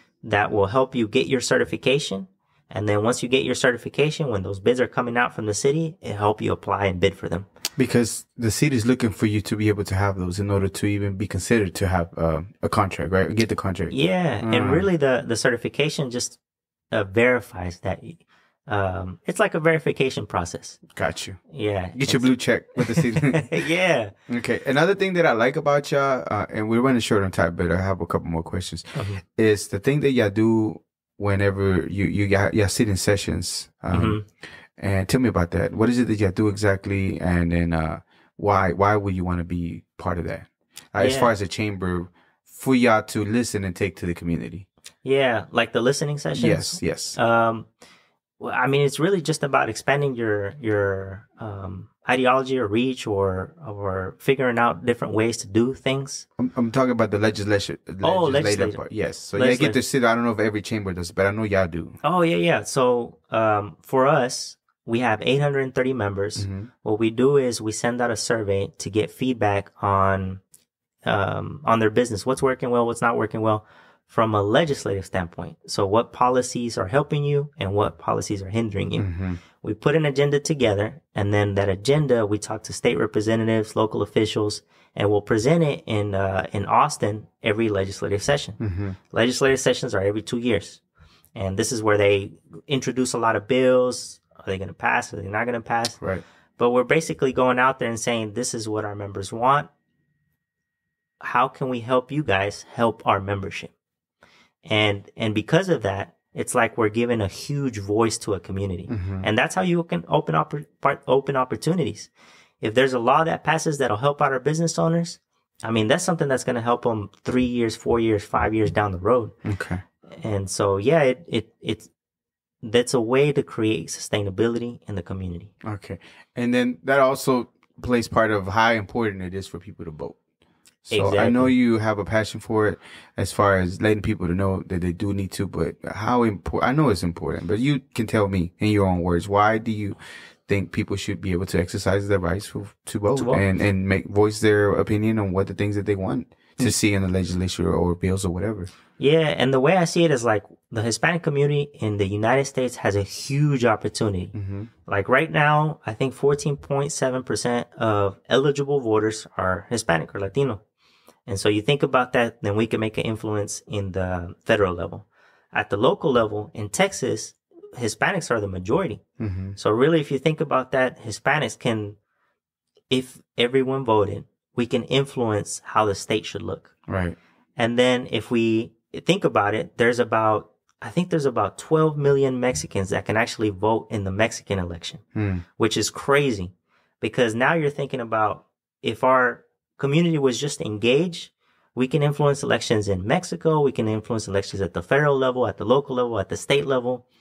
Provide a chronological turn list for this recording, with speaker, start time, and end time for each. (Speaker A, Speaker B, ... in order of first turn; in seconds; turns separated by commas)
Speaker A: 0.2-7.5, Speaker B: 7.8-14.9, Speaker A: 13.9-16.4, Speaker A: 16.9-20.8, Speaker B: 20.9-21.4, Speaker A: 21.5-24.1, Speaker B: 21.9-23.5, Speaker B: 24.3-34.2, Speaker A: 28.9-29.2, Speaker A: 33.9-34.2, Speaker B: 34.8-44.6, Speaker A: 41.0-41.3, Speaker A: 45.0-47.7, Speaker B: 46.4-47.2, Speaker A: 48.4-56.2, Speaker B: 56.4-62.0, Speaker A: 58.0-58.8, Speaker A: 59.3-59.8, Speaker A: 62.0-70.4, Speaker B: 66.4-66.7, Speaker A: 71.0-88.6, Speaker B: 79.0-79.4, Speaker B: 88.6-89.0, Speaker A: 89.1-90.8, Speaker A: 91.3-96.0, Speaker A: 96.6-99.7, Speaker A: 101.2-103.7, Speaker A: 104.6-112.1, Speaker B: 108.9-109.3, Speaker A: 112.6-119.3, Speaker B: 119.4-119.8, Speaker A: 120.1-121.9, Speaker A: 122.6-125.5, Speaker B: 125.6-130.2, Speaker B: 130.8-148.7, Speaker A: 130.9-131.5, Speaker A: 143.1-143.4, Speaker A: 149.0-154.3, Speaker B: 154.3-154.7, Speaker A: 154.9-160.6, Speaker A: 161.3-169.0, Speaker B: 169.2-169.6, Speaker A: 169.6-171.9, Speaker A: 172.9-176.7, Speaker B: 176.9-177.2, Speaker A: 177.6-185.0, Speaker B: 185.1-185.4, Speaker A: 185.6-197.0